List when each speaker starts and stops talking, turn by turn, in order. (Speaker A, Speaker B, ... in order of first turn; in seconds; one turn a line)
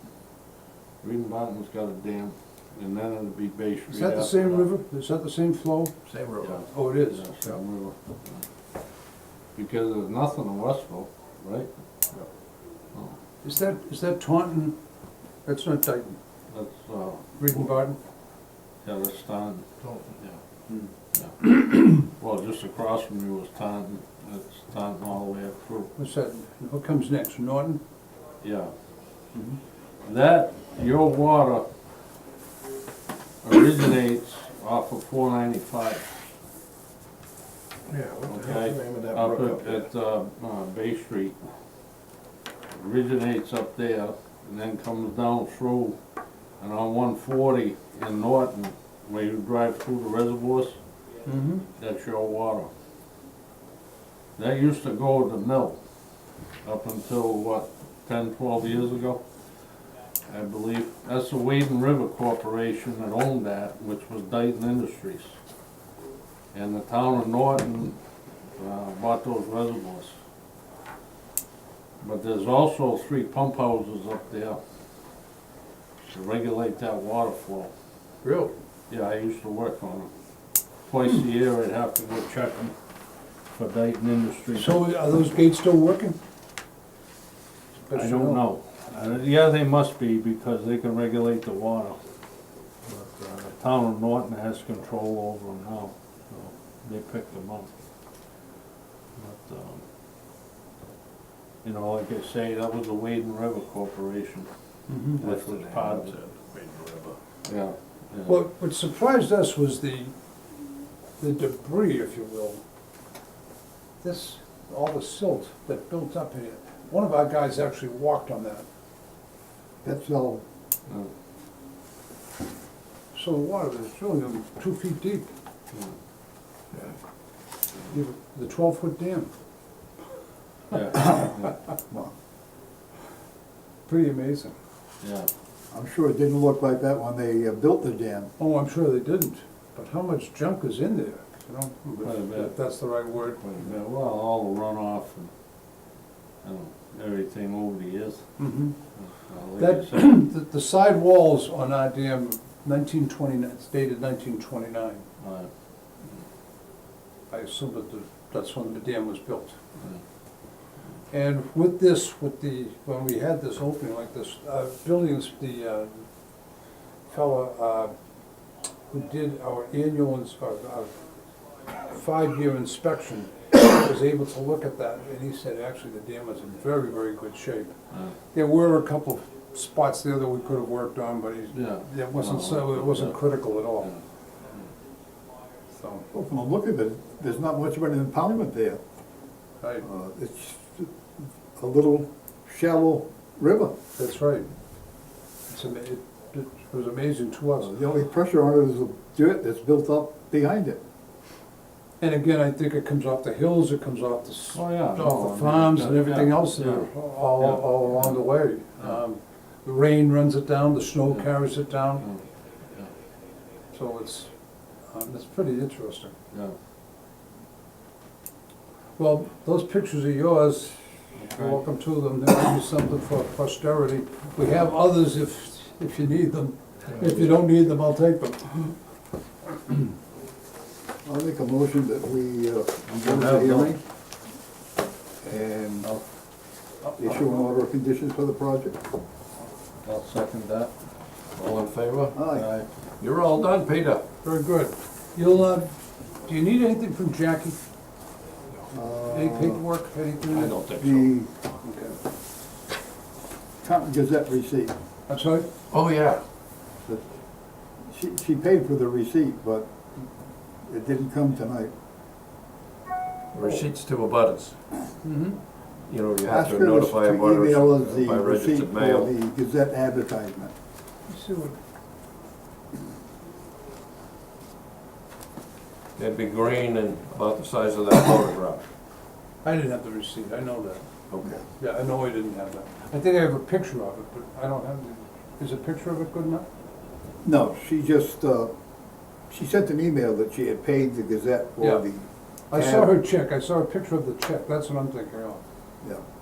Speaker A: 1.0-4.7
Speaker B: 3.9-6.0
Speaker C: 6.1-6.6
Speaker A: 6.4-8.4
Speaker B: 6.6-7.3
Speaker A: 9.6-11.7
Speaker B: 13.4-14.8
Speaker B: 15.5-16.2
Speaker A: 16.5-17.7
Speaker B: 17.4-18.0
Speaker A: 18.8-20.4
Speaker A: 21.1-25.9
Speaker B: 26.0-27.8
Speaker A: 28.4-28.7
Speaker A: 30.0-31.7
Speaker A: 33.4-36.1
Speaker C: 37.9-39.8
Speaker A: 38.3-41.4
Speaker A: 42.7-46.0
Speaker A: 46.6-50.8
Speaker B: 51.2-51.7
Speaker A: 51.8-52.7
Speaker A: 54.4-55.8
Speaker A: 56.6-59.2
Speaker A: 60.3-65.4
Speaker A: 66.5-68.0
Speaker A: 68.6-70.2
Speaker A: 72.0-74.6
Speaker A: 76.1-77.7
Speaker C: 78.2-78.5
Speaker A: 78.9-80.1
Speaker A: 80.9-82.7
Speaker A: 83.5-84.8
Speaker B: 84.5-86.2
Speaker B: 87.8-88.4
Speaker A: 87.9-92.0
Speaker A: 92.9-97.7
Speaker A: 99.2-99.8
Speaker A: 101.6-104.5
Speaker B: 104.9-105.2
Speaker A: 105.1-106.1
Speaker C: 105.2-107.2
Speaker A: 107.5-108.4
Speaker B: 108.3-110.1
Speaker B: 111.2-112.6
Speaker B: 114.0-118.7
Speaker D: 119.8-120.4
Speaker B: 123.1-125.3
Speaker B: 127.9-129.3
Speaker A: 130.7-131.5
Speaker B: 133.9-134.6
Speaker A: 135.0-135.3
Speaker D: 135.7-138.3
Speaker B: 138.4-143.6
Speaker A: 142.0-142.6
Speaker A: 143.3-145.3
Speaker A: 146.4-148.3
Speaker B: 148.4-148.8
Speaker A: 149.0-150.1
Speaker B: 149.6-155.1
Speaker A: 155.2-155.5
Speaker B: 157.3-159.6
Speaker B: 161.1-165.9
Speaker B: 167.1-167.9
Speaker B: 168.9-170.9
Speaker B: 171.8-177.7
Speaker B: 178.3-183.9
Speaker A: 181.5-184.0
Speaker B: 185.8-186.1
Speaker D: 186.1-188.8
Speaker D: 189.8-193.7
Speaker B: 194.0-194.5
Speaker B: 195.5-197.7
Speaker D: 197.6-200.8
Speaker B: 202.0-212.1
Speaker A: 204.5-208.2
Speaker B: 213.7-214.3
Speaker B: 214.9-216.2
Speaker B: 219.0-228.8
Speaker A: 221.2-221.6
Speaker D: 231.1-233.8
Speaker A: 232.9-233.8
Speaker D: 235.2-236.0
Speaker D: 237.0-238.8
Speaker A: 239.8-240.7
Speaker C: 241.3-242.2
Speaker D: 242.1-242.5
Speaker A: 242.3-242.7
Speaker C: 243.0-244.1
Speaker B: 244.2-247.6
Speaker D: 248.7-249.6
Speaker B: 249.1-250.6
Speaker C: 250.3-251.1
Speaker D: 250.8-251.3
Speaker B: 251.6-252.0
Speaker D: 253.6-254.8
Speaker B: 255.1-255.5
Speaker C: 255.7-256.3
Speaker D: 257.9-259.7
Speaker D: 260.6-261.7
Speaker C: 263.3-264.6
Speaker B: 265.0-265.4
Speaker C: 265.9-269.1
Speaker D: 266.3-270.5
Speaker B: 271.1-271.6
Speaker C: 276.0-278.7
Speaker B: 279.4-280.9
Speaker C: 281.1-281.4
Speaker B: 281.5-286.5
Speaker D: 287.2-288.5
Speaker D: 289.3-292.9
Speaker B: 292.5-295.4